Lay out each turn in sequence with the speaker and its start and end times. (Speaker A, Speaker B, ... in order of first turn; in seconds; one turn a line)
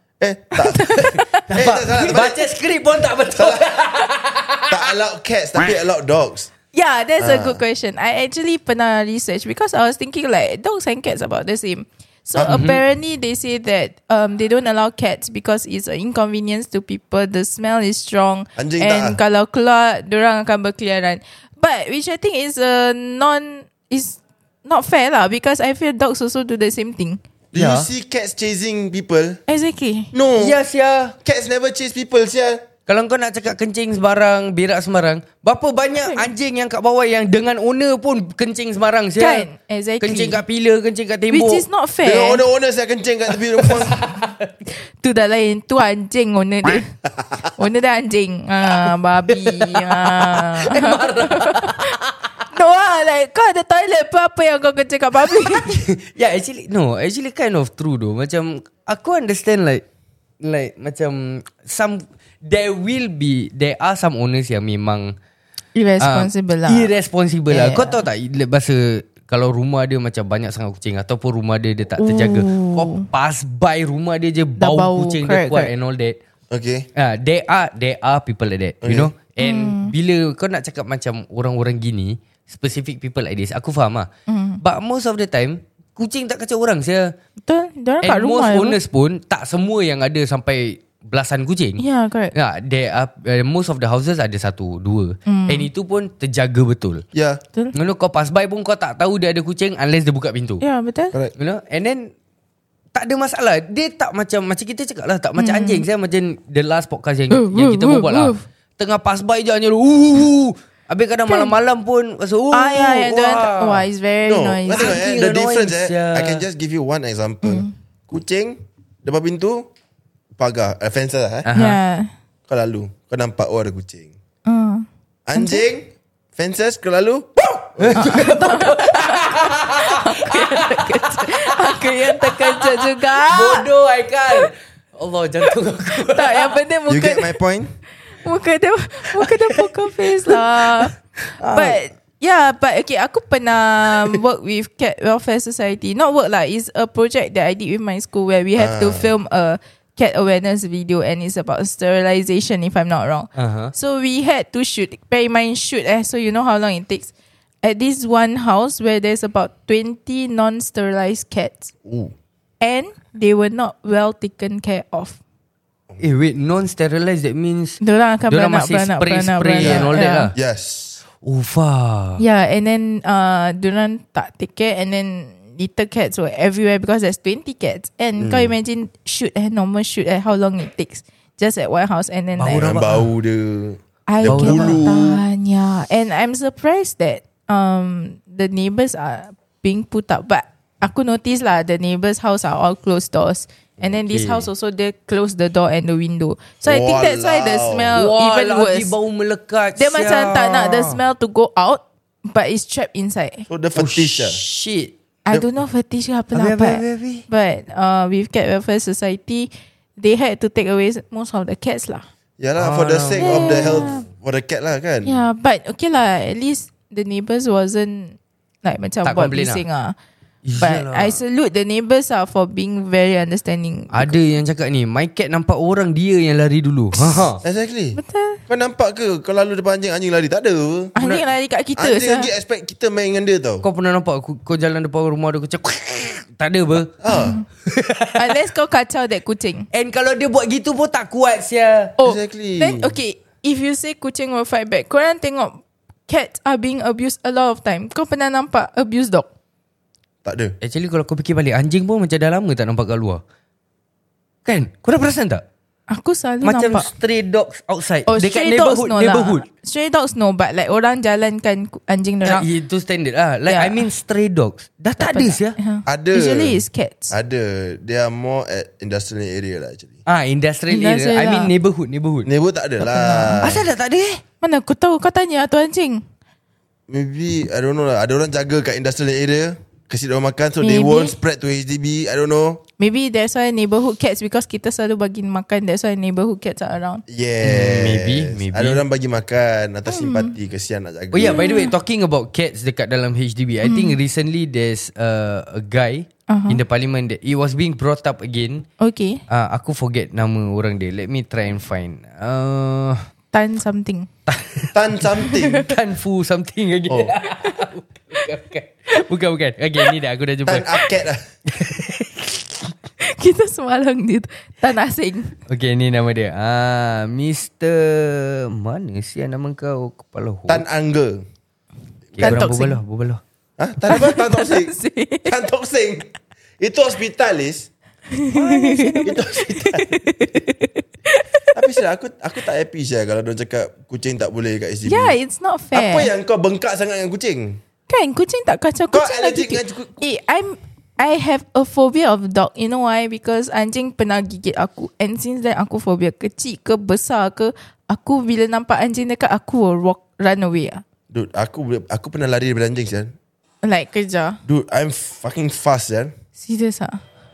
Speaker A: 0.2-2.4
Speaker B: 0.6-1.5
Speaker C: 1.5-4.8
Speaker A: 3.3-3.7
Speaker A: 4.7-6.5
Speaker B: 6.7-27.2
Speaker A: 7.2-7.6
Speaker C: 12.5-12.8
Speaker A: 18.6-19.2
Speaker A: 27.5-29.4
Speaker C: 27.5-27.9
Speaker B: 29.5-30.1
Speaker A: 30.1-30.6
Speaker C: 30.4-31.1
Speaker A: 31.2-32.6
Speaker C: 32.9-39.5
Speaker B: 39.2-40.4
Speaker C: 40.0-41.6
Speaker B: 41.3-42.4
Speaker A: 42.0-44.0
Speaker C: 43.7-44.5
Speaker B: 45.0-46.9
Speaker B: 47.5-51.9
Speaker C: 49.3-52.1
Speaker B: 52.5-55.8
Speaker C: 55.5-59.8
Speaker C: 60.4-65.1
Speaker B: 65.7-66.9
Speaker C: 66.0-76.2
Speaker B: 67.5-68.0
Speaker B: 72.0-73.0
Speaker B: 74.6-75.7
Speaker A: 76.5-76.9
Speaker C: 76.9-84.1
Speaker A: 78.8-79.1
Speaker B: 79.4-79.9
Speaker B: 84.3-84.6
Speaker C: 84.6-87.1
Speaker B: 87.5-88.8
Speaker C: 88.0-91.8
Speaker B: 91.8-92.3
Speaker C: 92.3-97.0
Speaker B: 95.3-95.7
Speaker A: 97.1-97.4
Speaker C: 97.7-100.6
Speaker B: 100.6-101.1
Speaker C: 101.4-102.1
Speaker C: 102.9-113.8
Speaker B: 105.4-105.8
Speaker B: 107.3-108.4
Speaker B: 111.3-111.5
Speaker B: 112.5-115.0
Speaker A: 114.2-119.7
Speaker C: 114.7-116.4
Speaker B: 117.4-117.7
Speaker A: 120.4-121.5
Speaker C: 121.4-121.8
Speaker B: 121.5-122.1
Speaker A: 122.5-124.1
Speaker B: 124.5-125.6
Speaker A: 125.2-128.2
Speaker C: 127.8-136.6
Speaker B: 128.0-133.7
Speaker B: 136.0-137.3
Speaker A: 136.9-137.7
Speaker B: 138.1-140.9
Speaker C: 139.2-139.7
Speaker C: 140.2-141.8
Speaker B: 141.5-157.1
Speaker A: 148.6-149.1
Speaker C: 153.3-153.7
Speaker B: 157.6-161.7
Speaker A: 161.8-162.1
Speaker B: 162.6-165.2
Speaker C: 166.0-170.3
Speaker B: 167.8-170.3
Speaker A: 169.6-171.0
Speaker C: 171.2-172.2
Speaker B: 172.2-182.7
Speaker A: 178.2-178.5
Speaker C: 182.4-183.1
Speaker A: 182.5-185.2
Speaker B: 184.1-198.9
Speaker C: 184.3-184.9
Speaker C: 193.9-194.5
Speaker A: 196.6-197.9
Speaker C: 197.9-201.0
Speaker B: 199.8-203.4
Speaker A: 203.5-204.4
Speaker C: 203.7-204.9
Speaker B: 205.2-212.1
Speaker C: 206.3-207.2
Speaker A: 212.4-215.1
Speaker C: 212.6-213.9
Speaker B: 213.2-214.1
Speaker B: 215.0-219.9
Speaker C: 219.0-219.6
Speaker C: 220.4-221.2
Speaker B: 220.6-224.1
Speaker C: 223.9-227.4
Speaker A: 227.4-230.9
Speaker B: 227.9-228.4
Speaker B: 230.9-232.3
Speaker C: 231.0-231.2
Speaker A: 231.8-233.6
Speaker C: 233.6-237.0
Speaker A: 237.0-237.3
Speaker B: 237.1-237.4
Speaker C: 237.7-238.3
Speaker B: 238.2-239.7
Speaker C: 239.7-241.9
Speaker B: 242.0-249.3
Speaker A: 242.0-242.9
Speaker A: 250.2-250.6
Speaker C: 250.6-253.2
Speaker C: 254.4-255.4
Speaker B: 255.9-256.9
Speaker C: 256.4-259.4
Speaker B: 258.1-262.4
Speaker C: 262.2-265.6
Speaker B: 263.5-263.9
Speaker B: 265.0-267.1
Speaker A: 265.9-270.0
Speaker C: 270.1-272.3
Speaker B: 270.7-271.5
Speaker A: 272.2-273.6
Speaker B: 272.9-273.4
Speaker C: 273.4-274.2
Speaker B: 274.4-276.0
Speaker A: 276.9-282.6
Speaker B: 280.6-281.1
Speaker B: 282.8-287.0
Speaker A: 287.1-291.4
Speaker C: 287.4-288.8
Speaker B: 289.9-290.3
Speaker C: 291.1-298.6
Speaker B: 291.2-291.7
Speaker B: 293.6-294.0
Speaker B: 296.3-296.6
Speaker B: 298.8-299.2
Speaker C: 299.3-303.0
Speaker B: 303.3-304.1
Speaker C: 304.3-310.9
Speaker A: 304.7-305.7
Speaker B: 305.3-305.5
Speaker A: 310.4-311.2
Speaker C: 311.5-312.4
Speaker B: 313.0-315.3
Speaker C: 315.5-320.6
Speaker A: 320.5-321.2
Speaker C: 322.1-323.2
Speaker B: 322.2-322.8
Speaker A: 323.6-324.7
Speaker B: 323.9-325.3
Speaker A: 325.2-326.1
Speaker A: 326.6-327.7
Speaker B: 328.1-331.5
Speaker C: 328.5-329.0
Speaker A: 329.0-329.9
Speaker A: 331.5-335.1
Speaker B: 334.9-336.1
Speaker A: 335.7-337.6
Speaker B: 337.9-350.8
Speaker A: 338.9-340.0
Speaker A: 351.1-353.1
Speaker B: 353.6-354.4
Speaker A: 354.4-356.1
Speaker B: 356.4-357.0